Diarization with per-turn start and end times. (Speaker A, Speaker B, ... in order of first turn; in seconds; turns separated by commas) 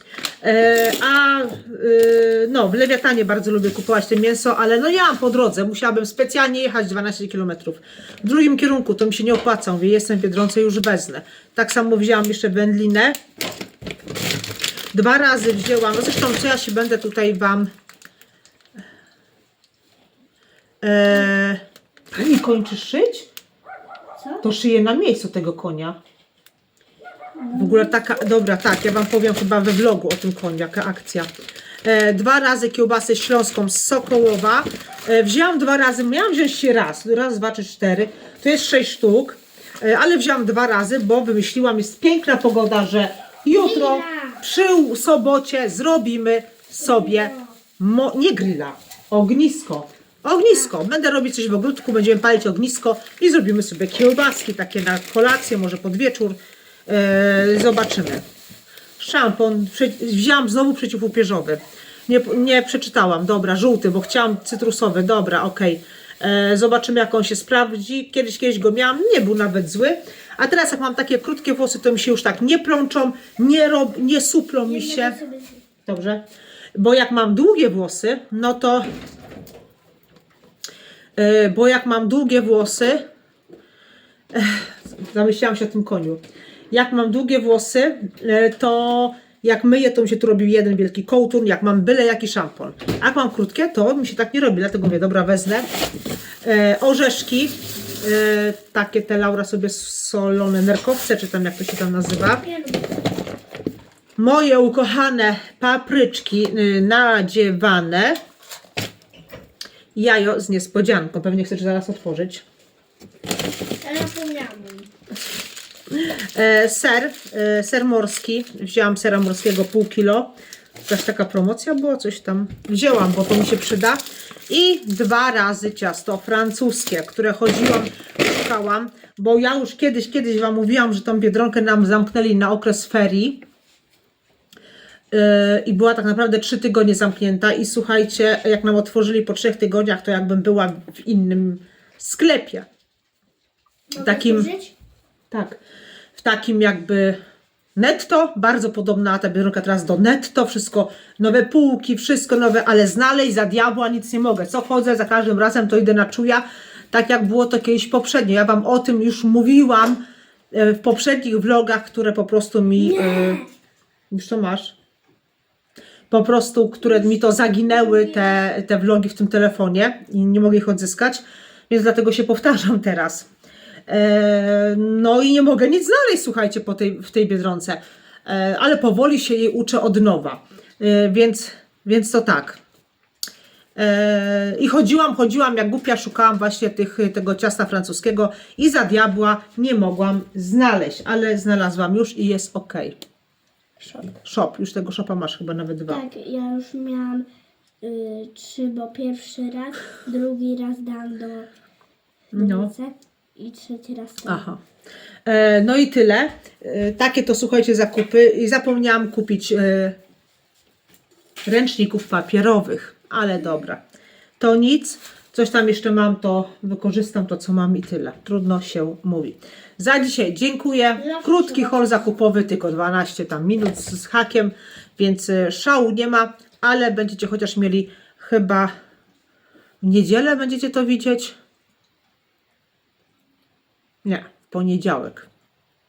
Speaker A: 0.4-13.2, Speaker A: 14.9-17.7, Speaker A: 20.8-21.6, Speaker A: 22.1-23.3, Speaker A: 24.4-26.0, Speaker B: 27.4-27.9, Speaker A: 27.5-31.3, Speaker A: 31.8-58.2, Speaker B: 43.5-44.4, Speaker B: 46.8-47.5, Speaker A: 59.0-75.2, Speaker B: 74.6-75.6, Speaker A: 75.9-76.2, Speaker A: 76.8-78.9, Speaker A: 81.2-83.1, Speaker A: 84.3-95.7, Speaker A: 96.4-102.4, Speaker B: 102.4-102.9, Speaker A: 104.2-108.2, Speaker A: 110.0-112.4, Speaker B: 113.8-114.9, Speaker A: 115.9-120.3, Speaker A: 120.8-133.4, Speaker A: 135.1-142.7, Speaker B: 143.9-144.7, Speaker A: 144.0-144.5, Speaker A: 145.3-145.6, Speaker A: 146.2-147.2, Speaker A: 147.8-160.0, Speaker A: 160.5-163.4, Speaker B: 162.8-163.5, Speaker A: 164.1-164.8, Speaker A: 166.1-173.3, Speaker B: 167.7-168.3, Speaker A: 173.9-182.6, Speaker A: 183.8-193.0, Speaker B: 193.8-194.1, Speaker A: 194.2-196.0, Speaker B: 195.9-197.2, Speaker B: 197.8-201.5, Speaker A: 202.3-202.7, Speaker B: 202.3-204.5, Speaker A: 204.2-204.6, Speaker A: 205.2-210.0, Speaker A: 211.5-213.8, Speaker A: 214.4-228.7, Speaker B: 221.0-222.1, Speaker A: 229.8-231.3, Speaker A: 234.0-235.3